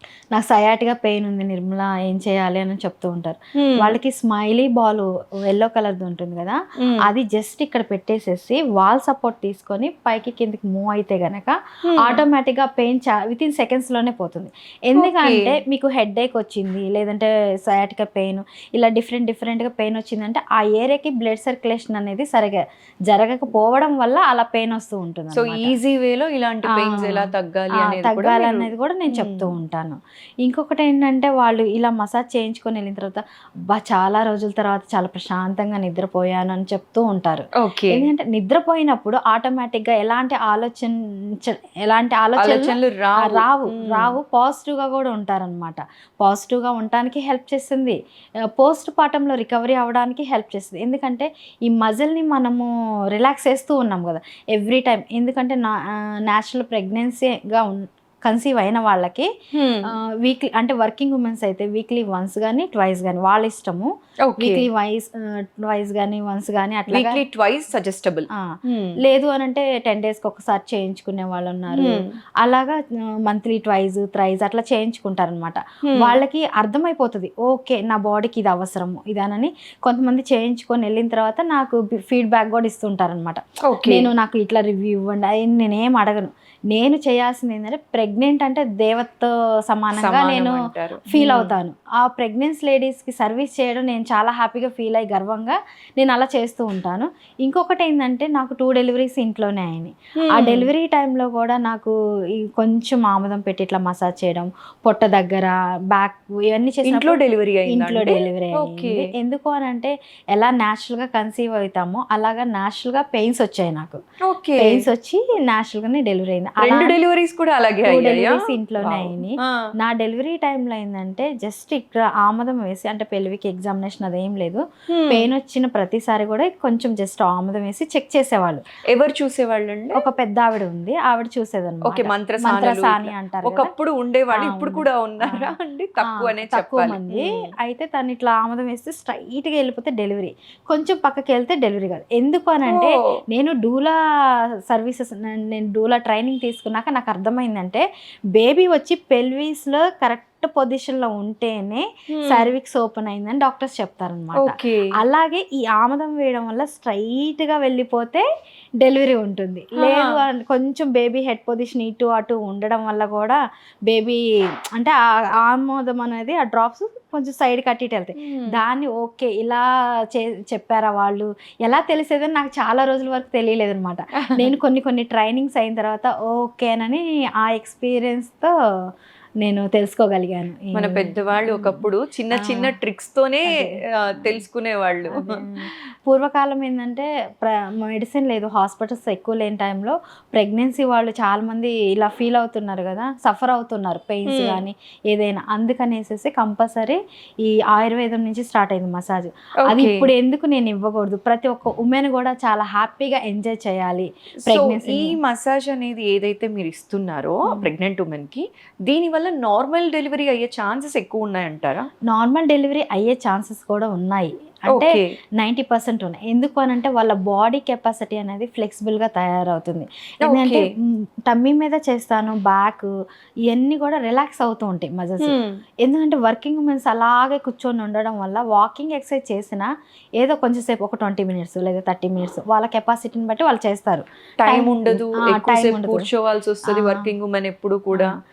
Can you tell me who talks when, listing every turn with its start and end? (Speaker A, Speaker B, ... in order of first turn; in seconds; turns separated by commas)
Speaker A: 0.3-25.7, Speaker B: 3.6-3.9, Speaker B: 11.9-12.2, Speaker B: 14.9-15.6, Speaker B: 25.3-29.5, Speaker A: 26.7-48.0, Speaker B: 37.6-38.1, Speaker B: 42.4-44.1, Speaker A: 48.5-59.3, Speaker B: 59.5-59.9, Speaker A: 59.9-67.2, Speaker B: 64.2-64.6, Speaker B: 66.9-68.9, Speaker A: 69.0-114.0, Speaker B: 71.7-72.1, Speaker B: 75.8-76.2, Speaker B: 83.7-84.1, Speaker B: 89.9-91.5, Speaker B: 100.2-100.7, Speaker B: 106.8-109.0, Speaker B: 114.2-114.9, Speaker A: 114.6-117.0, Speaker B: 116.6-119.6, Speaker A: 117.8-128.6, Speaker B: 124.9-125.3, Speaker B: 128.9-130.0, Speaker A: 129.9-133.7, Speaker B: 131.8-137.5, Speaker A: 134.3-135.5, Speaker A: 136.1-143.9, Speaker B: 142.7-143.1, Speaker A: 144.7-158.2, Speaker B: 152.1-152.5, Speaker B: 154.3-154.9, Speaker A: 158.8-164.2, Speaker B: 159.8-160.2, Speaker A: 164.7-178.5, Speaker B: 168.2-168.6, Speaker A: 179.4-181.8, Speaker B: 180.7-185.4, Speaker A: 182.3-182.7, Speaker A: 183.5-184.3, Speaker A: 185.1-205.2, Speaker B: 194.3-194.6, Speaker B: 199.7-200.1, Speaker B: 204.4-211.9, Speaker A: 212.1-220.7, Speaker B: 214.7-215.1, Speaker B: 220.2-220.7, Speaker A: 221.2-222.9, Speaker A: 223.5-236.1, Speaker B: 225.2-225.6, Speaker B: 234.4-238.1, Speaker A: 236.7-237.1